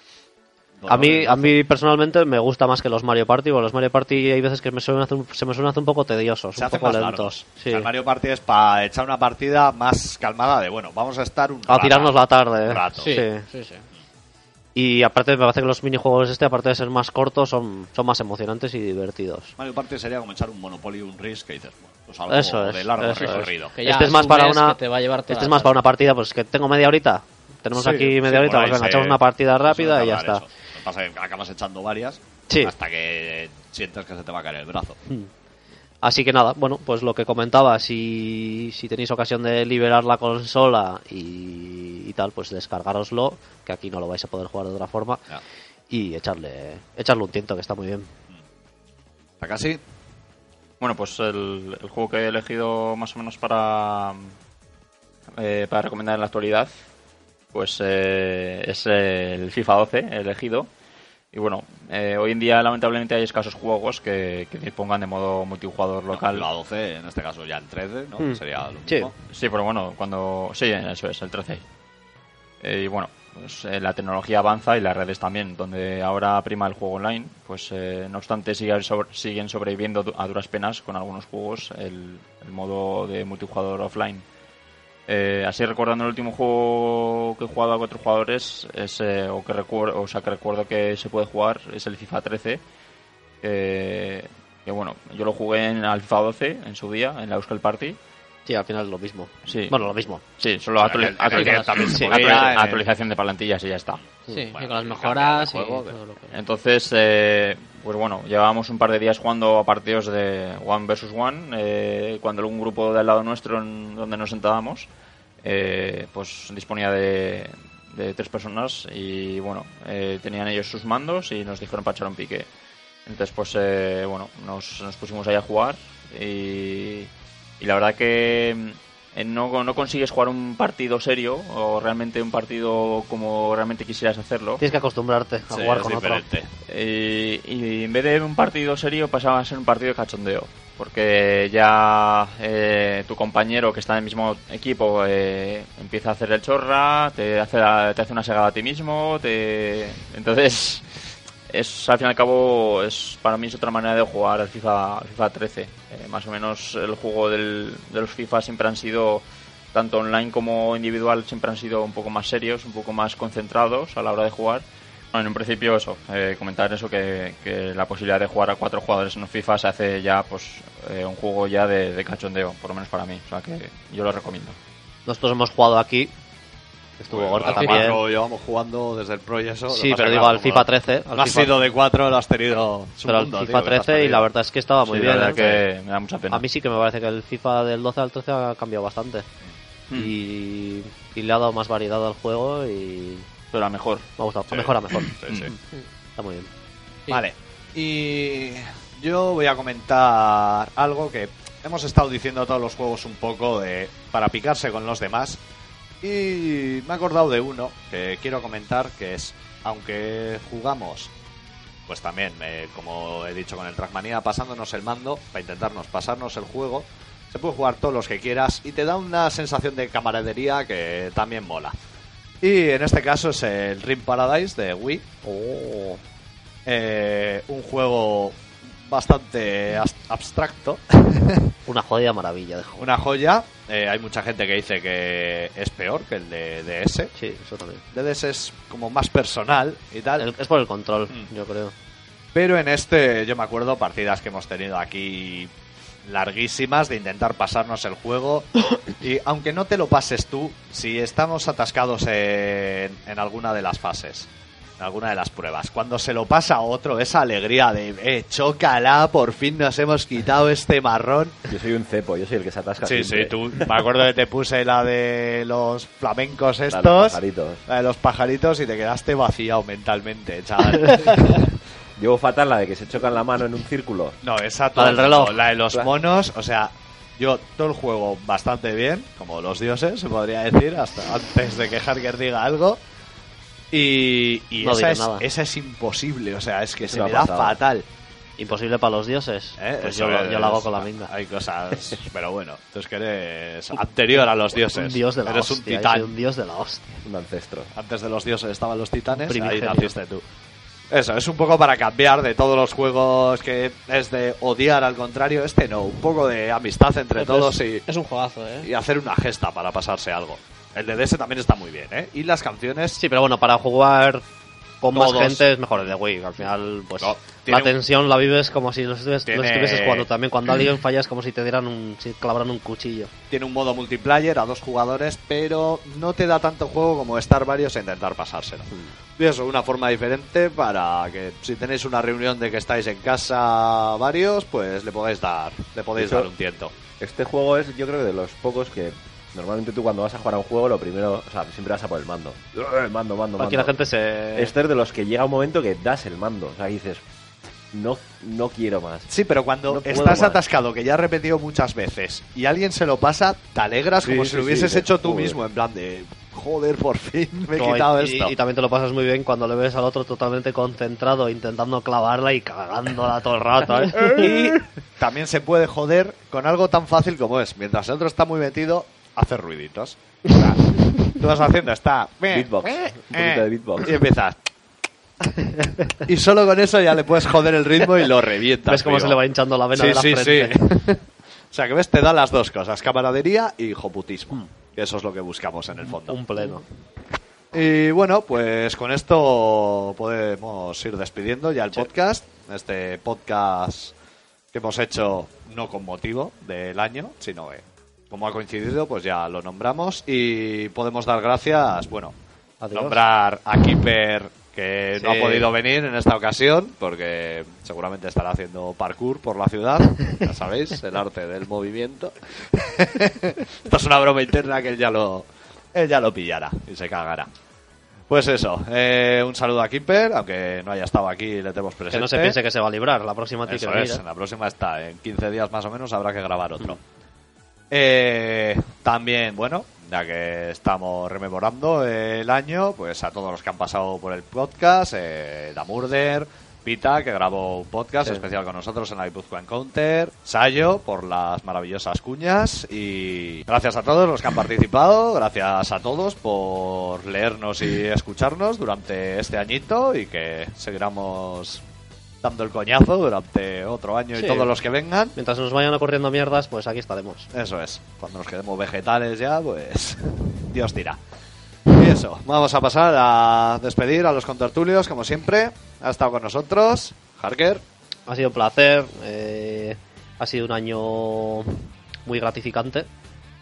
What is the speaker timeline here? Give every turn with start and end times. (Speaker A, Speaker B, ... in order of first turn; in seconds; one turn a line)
Speaker A: 0.8-1.5
Speaker B: 0.9-7.9
Speaker A: 6.6-13.2
Speaker B: 11.7-13.4
Speaker C: 13.0-13.8
Speaker B: 14.8-19.5
Speaker A: 19.6-23.8
Speaker B: 22.3-30.4
Speaker C: 23.2-25.8
Speaker A: 27.8-35.0
Speaker B: 32.5-32.7
Speaker B: 36.0-45.2
Speaker B: 45.9-48.1
Speaker A: 49.4-49.8
Speaker D: 50.8-54.3
Speaker D: 55.4-56.7
Speaker D: 57.5-60.7
Speaker D: 61.3-66.5
Speaker A: 66.1-69.1
Speaker B: 68.2-69.1
Speaker D: 69.3-71.6
Speaker D: 72.6-84.2
Speaker D: 85.1-92.6
Speaker D: 93.4-98.0
Speaker B: 98.5-100.2
Speaker D: 99.5-99.8
Speaker D: 100.4-104.0
Speaker A: 100.8-102.8
Speaker C: 101.3-101.8
Speaker B: 101.9-102.5
Speaker C: 104.3-106.3
Speaker A: 104.3-106.0
Speaker D: 106.3-114.9
Speaker D: 115.4-122.5
Speaker D: 123.1-134.6
Speaker B: 134.6-136.2
Speaker A: 135.5-136.5
Speaker D: 136.7-174.6
Speaker B: 175.1-176.1
Speaker B: 177.0-178.0
Speaker A: 177.1-184.3
Speaker C: 177.5-177.8
Speaker B: 179.7-181.5
Speaker B: 183.1-185.6
Speaker D: 184.9-186.4
Speaker B: 186.3-189.3
Speaker B: 189.9-193.3
Speaker D: 193.5-194.1
Speaker B: 194.2-195.1
Speaker A: 194.5-195.5
Speaker D: 194.9-195.5
Speaker B: 196.2-196.5
Speaker A: 197.1-205.4
Speaker A: 206.0-211.1
Speaker A: 211.9-221.8
Speaker A: 222.4-225.1
Speaker B: 225.2-226.0
Speaker A: 226.7-231.5
Speaker B: 231.7-232.9
Speaker A: 232.8-237.1
Speaker B: 237.2-237.8
Speaker A: 237.9-240.3
Speaker B: 240.2-241.7
Speaker A: 242.3-245.5
Speaker A: 246.1-254.3
Speaker A: 254.8-261.4
Speaker E: 261.5-263.4
Speaker A: 262.8-271.5
Speaker E: 266.7-267.6
Speaker E: 272.0-274.2
Speaker A: 274.2-282.8
Speaker B: 274.8-275.4
Speaker A: 283.7-287.9
Speaker B: 284.6-285.3
Speaker E: 286.8-287.6
Speaker B: 288.4-291.1
Speaker A: 289.6-296.1
Speaker B: 294.5-296.9
Speaker E: 297.0-297.7
Speaker A: 297.7-300.2
Speaker B: 299.1-300.0
Speaker A: 300.9-307.8
Speaker C: 307.1-308.7
Speaker A: 308.6-313.0
Speaker B: 313.0-314.2
Speaker B: 314.8-323.1
Speaker A: 314.9-315.4
Speaker A: 317.0-317.7
Speaker A: 319.3-320.1
Speaker A: 323.3-336.8
Speaker E: 335.9-336.3
Speaker E: 337.0-343.7
Speaker B: 343.4-344.5
Speaker E: 344.4-347.0
Speaker E: 347.7-349.1
Speaker A: 349.1-358.3
Speaker E: 349.7-350.4
Speaker E: 354.0-355.4
Speaker B: 357.5-364.4
Speaker A: 364.0-370.0
Speaker E: 370.3-370.6
Speaker A: 371.1-374.4
Speaker E: 372.3-374.0
Speaker A: 376.0-379.2
Speaker B: 378.7-381.0
Speaker A: 379.8-380.7
Speaker A: 381.5-386.2
Speaker B: 385.9-386.6
Speaker A: 387.5-393.9
Speaker A: 394.5-402.1
Speaker B: 402.6-403.0
Speaker A: 402.7-417.3
Speaker B: 405.0-405.6
Speaker A: 418.1-422.4
Speaker B: 421.9-424.0
Speaker A: 423.5-426.8
Speaker A: 427.7-451.6
Speaker A: 452.2-455.1
Speaker B: 454.1-454.5
Speaker B: 455.2-457.3
Speaker A: 457.3-461.0
Speaker A: 461.7-467.6
Speaker B: 468.1-472.9